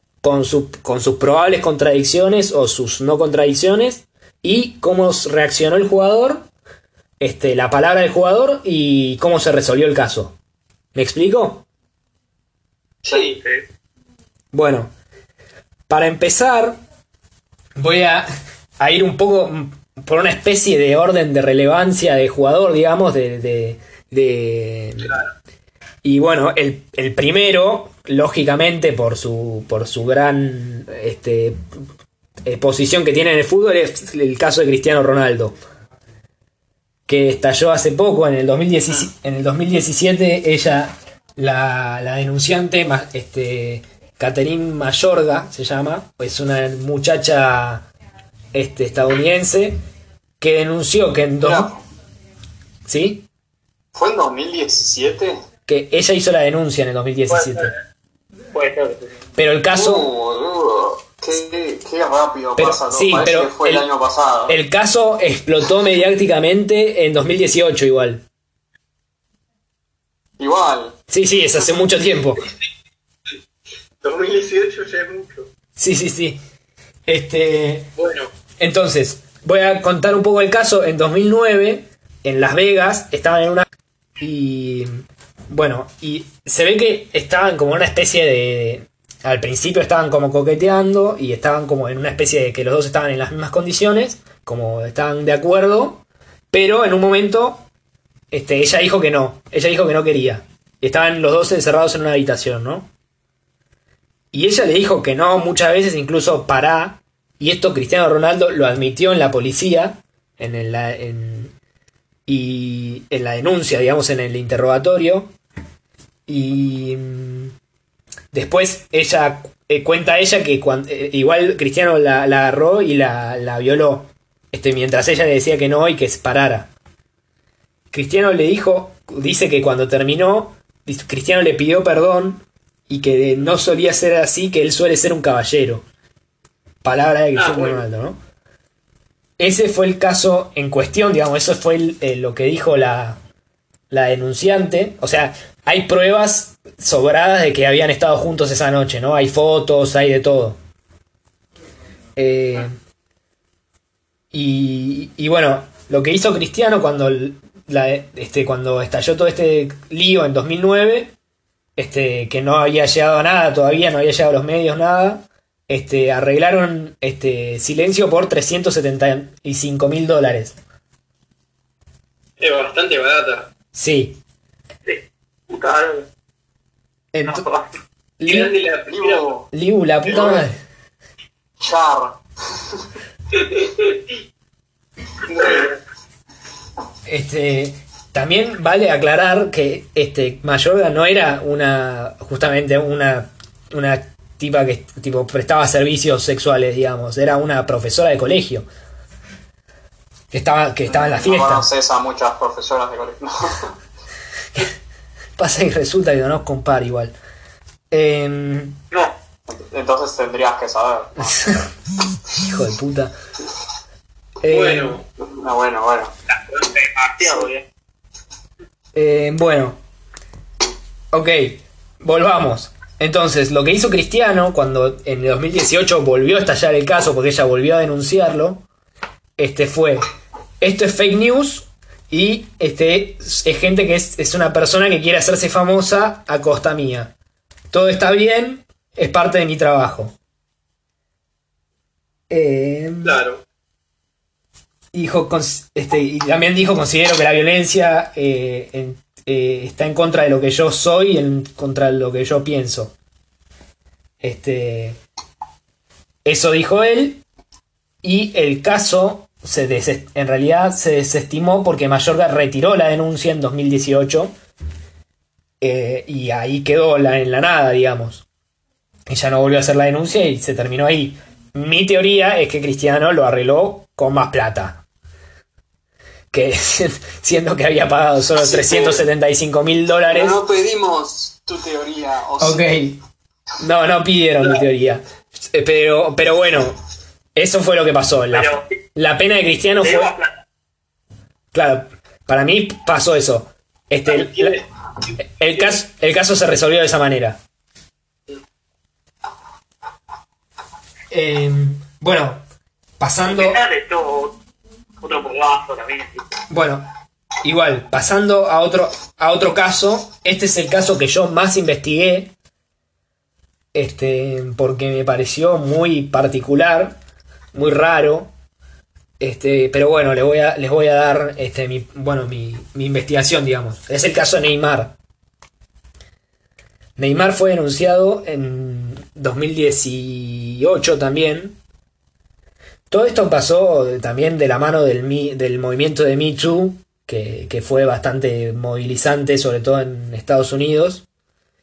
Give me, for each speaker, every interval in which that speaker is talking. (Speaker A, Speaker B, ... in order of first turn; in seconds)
Speaker A: 0.2-6.5, 7.2-10.3, 10.9-11.7, 14.5-14.9, 15.9-16.8, 17.8-18.3, 18.8-25.2, 26.0-31.6, 32.5-35.5, 37.1-47.9, 48.5-49.8, 50.4-51.7, 52.9-53.3, 55.7-57.7, 59.4-60.1, 62.6-63.9, 64.5-68.2, 71.1-72.5, 75.8-76.4, 77.1-77.9, 78.6-83.7, 84.2-97.6, 98.3-102.9, 104.3-111.5, 112.3-115.3, 116.3-117.5, 118.3-126.7, 127.9-135.8, 136.8-138.2, 139.4-143.2, 143.9-150.6, 152.2-152.8, 154.3-161.1, 161.8-170.6, 173.7-174.2, 177.1-177.5, 178.2-178.5, 179.5-180.6, 187.1-198.7, 200.3-201.7, 205.4-207.1, 207.9-208.8, 211.2-211.7, 212.4-213.1, 214.4-215.0, 218.9-219.8, 221.1-228.6, 229.4-230.1, 230.6-237.1, 237.7-240.1, 242.3-243.2, 244.9-252.9, 254.2-255.0, 256.2-257.2, 258.0-264.3, 265.6-268.2, 269.1-274.8, 276.3-280.4, 282.4-283.0, 283.6-286.8, 287.3-290.1, 291.5-294.6, 295.2-297.4, 301.1-302.4, 303.0-303.6, 306.5-306.8, 307.4-312.3, 313.7-317.0, 317.5-318.3, 319.2-324.9, 327.0-331.6, 332.9-341.0
Speaker B: 13.0-13.4, 74.0-75.5, 78.0-78.3, 137.3-137.8, 172.4-173.5, 178.2-179.3, 183.3-184.0, 185.2-185.8, 214.5-215.0, 243.0-243.4, 294.1-295.7
Speaker C: 13.1-13.4, 51.4-51.7, 53.9-55.4, 59.7-64.6, 70.4-71.0, 178.9-179.5, 180.0-180.4, 181.6-182.8, 200.9-203.7, 209.5-211.4, 215.2-216.1, 278.4-279.1, 280.0-282.8
Speaker D: 57.3-57.8, 58.5-59.1, 174.8-176.1, 177.3-177.6, 216.5-217.6, 288.3-288.6, 289.8-290.3, 303.3-304.3, 305.0-306.2